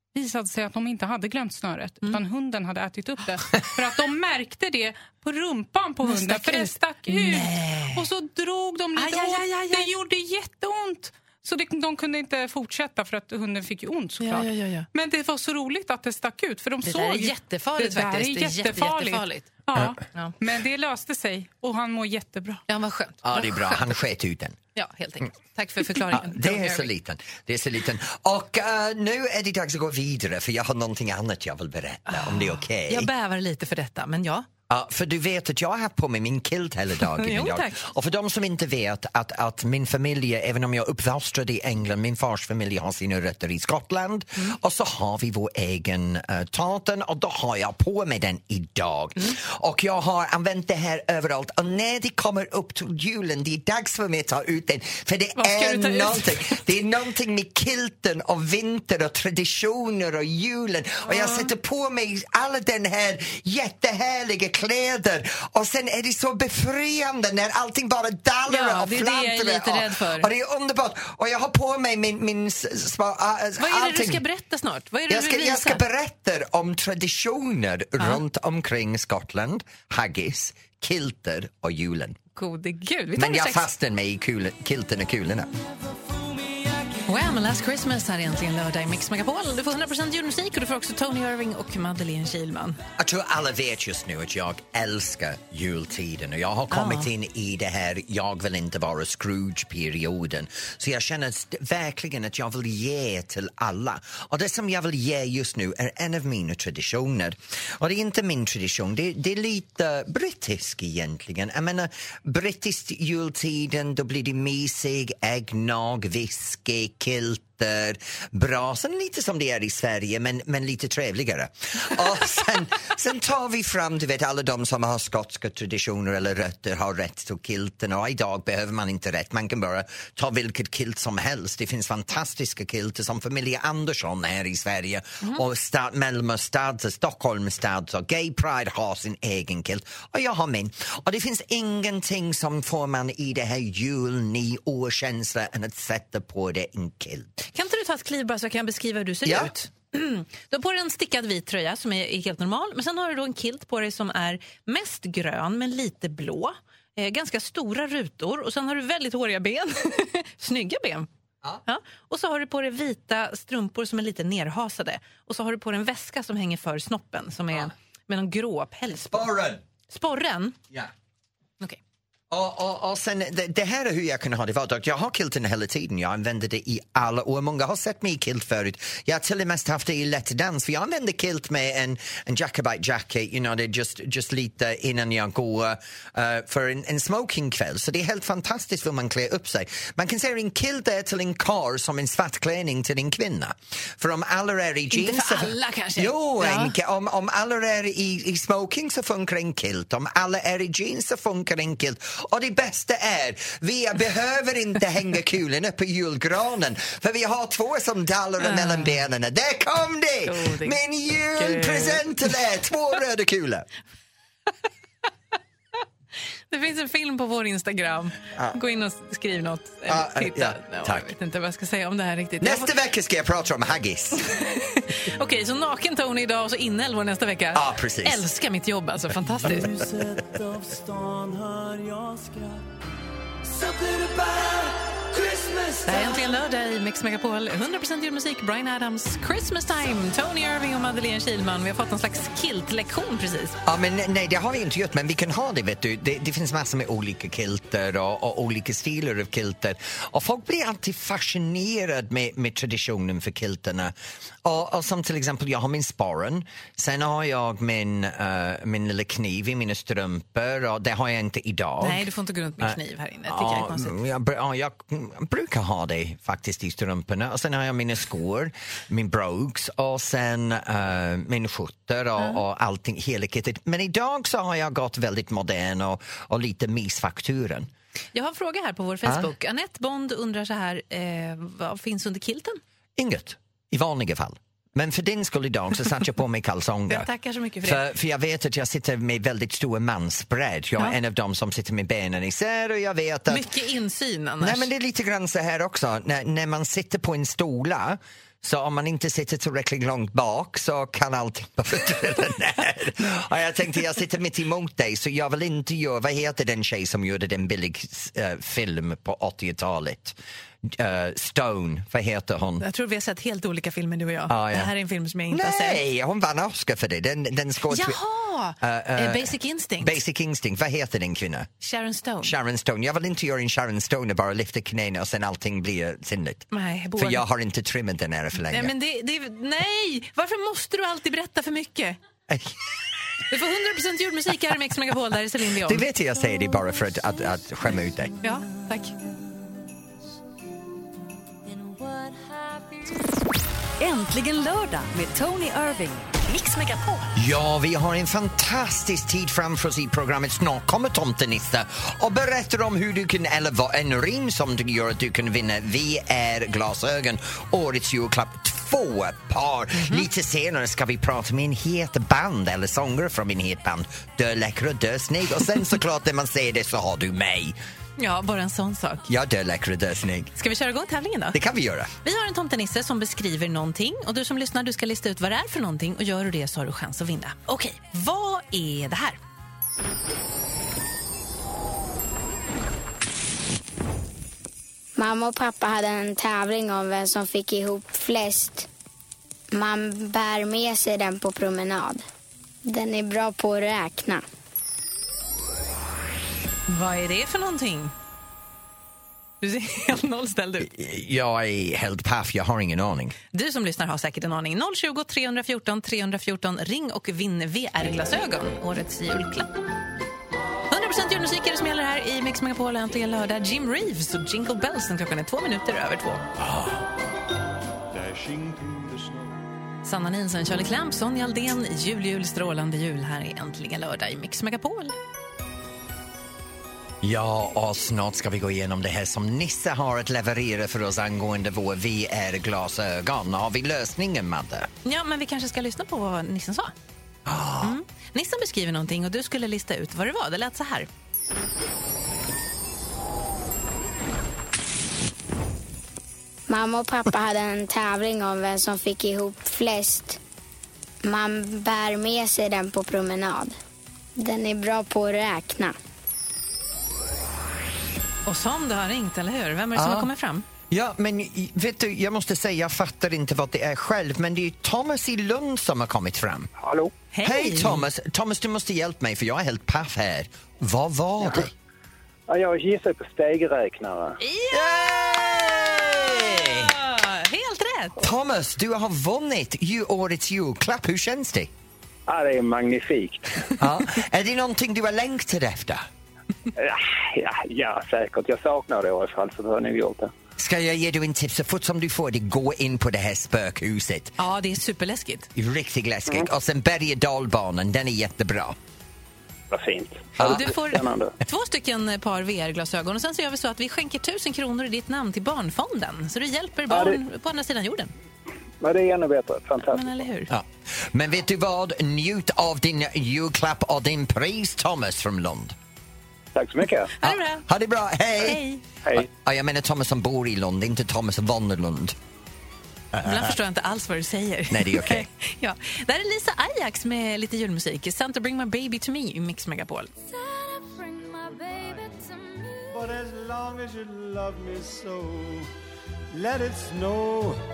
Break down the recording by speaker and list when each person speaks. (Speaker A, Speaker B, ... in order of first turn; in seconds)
Speaker A: 0.1-22.6
Speaker B: 6.0-8.1, 8.9-9.9, 14.2-14.9, 16.8-19.6, 22.7-23.9, 24.7-26.9, 32.1-34.5, 37.1-37.8, 55.4-56.6, 61.1-61.5, 68.5-70.3, 73.6-75.8, 82.3-83.7, 87.0-92.8, 96.7-97.1, 147.5-161.1, 161.7-169.3, 169.9-170.6, 194.9-196.8, 208.4-209.0, 210.2-210.8, 211.3-212.3, 216.5-222.7, 224.3-229.7, 235.8-243.6, 261.8-264.0, 278.1-282.6, 286.9-287.8, 293.3-294.7, 312.6-315.8, 317.7-320.0, 321.6-322.3, 326.5-327.2, 328.5-332.0, 333.3-335.8, 338.2-338.9, 359.7-360.1, 368.0-369.1, 370.4-371.4, 372.0-379.2, 396.7-397.9, 399.4-400.7, 403.3-409.5, 410.7-416.2, 419.8-424.9, 434.8-436.7, 437.6-440.9, 458.2-460.4, 467.1-467.8, 474.2-474.9, 475.7-478.1, 494.2-495.3, 500.2-507.9, 509.7-510.3, 517.0-517.5, 518.2-518.6, 523.0-529.9
Speaker C: 23.2-24.6, 25.9-33.1, 34.7-74.2, 75.1-82.2, 83.2-85.5, 93.0-147.3, 149.2-149.5, 168.9-169.6, 172.3-213.7, 219.8-221.1, 222.4-224.2, 227.5-228.2, 243.7-262.1, 262.6-277.7, 279.0-279.3, 283.0-287.1, 287.6-293.5, 294.4-312.6, 314.3-314.7, 315.3-318.0, 318.6-321.5, 322.2-328.7, 332.3-332.8, 335.5-338.1, 347.1-367.6, 369.1-370.3, 371.3-371.9, 400.6-403.1, 427.0-434.7, 437.2-437.8, 459.7-460.1, 460.7-466.5, 467.2-471.5, 474.5-476.7, 478.0-481.5, 483.6-485.9, 490.4-494.1, 495.3-498.6, 500.2-500.4, 510.3-515.5, 517.0-518.4, 518.9-522.0, 522.9-523.3, 524.5-525.1
Speaker D: 229.5-232.6
Speaker E: 233.5-234.7, 235.2-235.6, 417.9-419.4, 530.4-535.5, 536.1-537.4
Speaker F: 343.8-347.1
Speaker G: 385.0-388.7, 389.5-392.0, 392.6-394.2, 446.5-450.2, 451.0-453.6, 454.2-455.8
Speaker H: 466.6-466.9, 472.3-474.2, 482.1-483.5, 486.6-490.1, 499.5-501.1, 506.7-507.0, 508.6-509.9, 516.3-516.9